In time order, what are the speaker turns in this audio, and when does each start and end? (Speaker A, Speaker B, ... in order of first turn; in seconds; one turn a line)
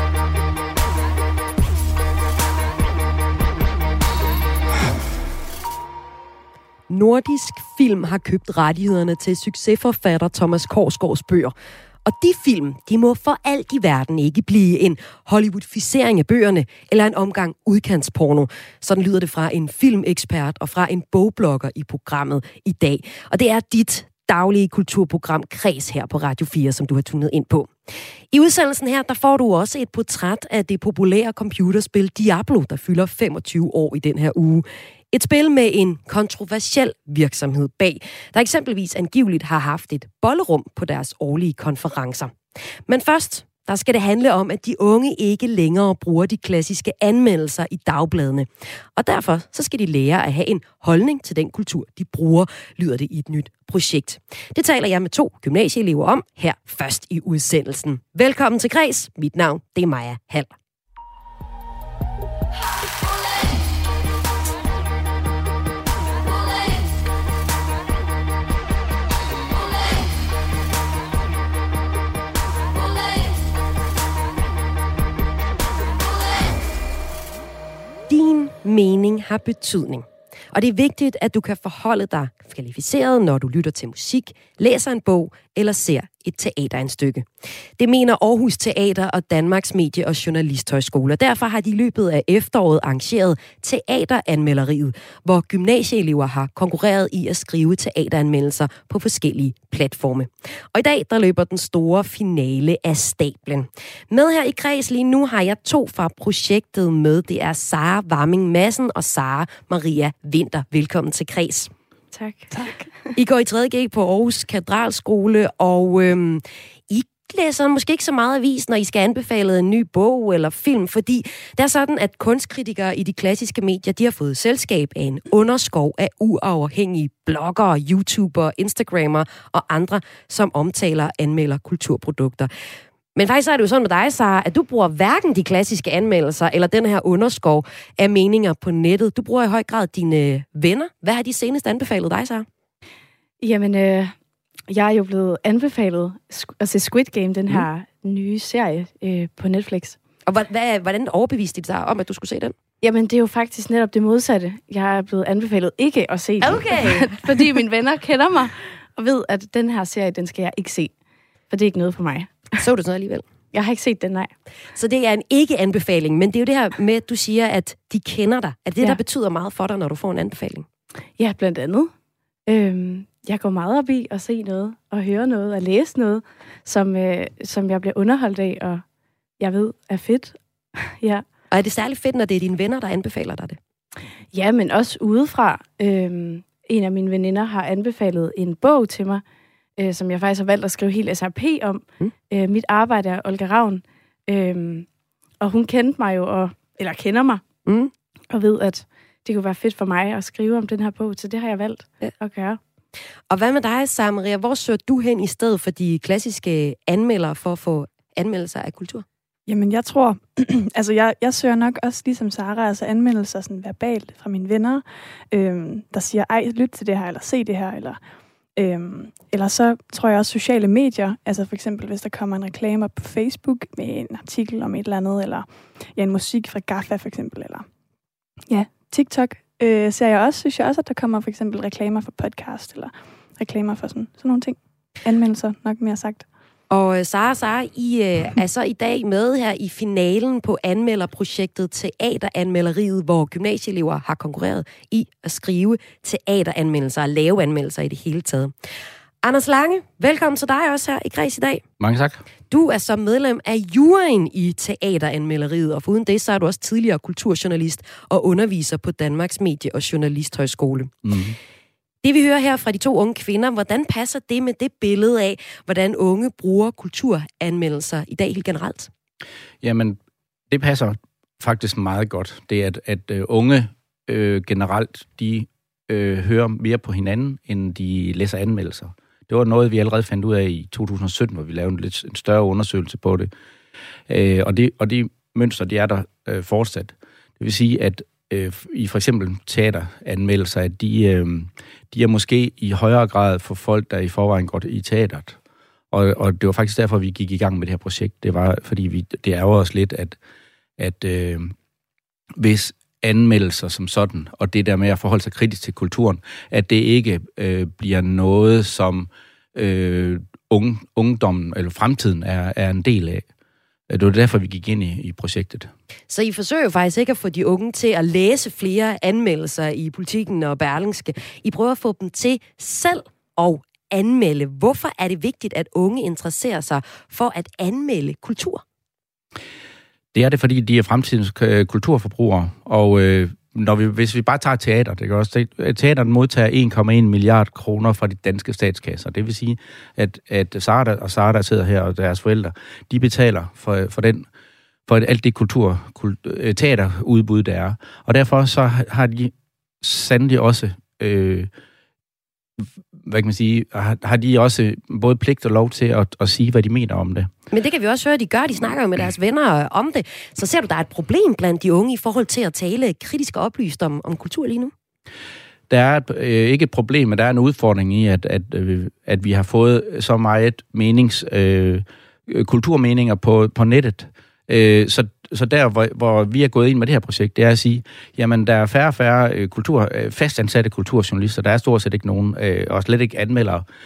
Speaker A: 6.9-11.5
Speaker A: 12.0-42.3
Speaker A: 42.9-60.5
Speaker A: 78.1-87.2
Speaker A: 87.8-111.7
Speaker B: 112.1-112.6
Speaker C: 112.5-112.9
Speaker A: 113.2-132.5
Speaker A: 133.1-142.5
Speaker B: 143.4-144.2
Speaker B: 144.7-150.0
Speaker A: 150.2-152.5
Speaker B: 152.8-160.9
Speaker A: 156.4-157.3
Speaker B: 161.5-162.6
Speaker A: 162.6-163.3
Speaker B: 163.5-164.3
Speaker A: 164.7-170.7
Speaker B: 171.2-171.9
Speaker B: 172.5-178.8
Speaker B: 179.4-181.2
Speaker A: 181.5-183.6
Speaker B: 184.3-189.2
Speaker B: 189.8-194.9
Speaker B: 195.4-197.4
Speaker A: 197.7-197.9
Speaker B: 198.3-202.6
Speaker A: 203.3-209.0
Speaker C: 209.5-218.0
Speaker C: 218.6-227.7
Speaker C: 228.5-236.2
Speaker A: 236.7-248.5
Speaker A: 249.2-251.6
Speaker D: 251.8-252.2
Speaker A: 252.5-260.9
Speaker D: 261.0-261.4
Speaker A: 262.0-268.9
Speaker D: 269.6-270.0
Speaker D: 270.5-283.3
Speaker D: 284.1-295.4
Speaker D: 295.9-300.2
Speaker D: 300.8-301.5
Speaker D: 302.4-313.2
Speaker D: 313.9-315.7
Speaker A: 316.1-328.6
Speaker D: 330.1-344.2
Speaker D: 344.9-351.5
Speaker D: 352.6-357.3
Speaker A: 357.5-364.7
Speaker D: 365.7-383.6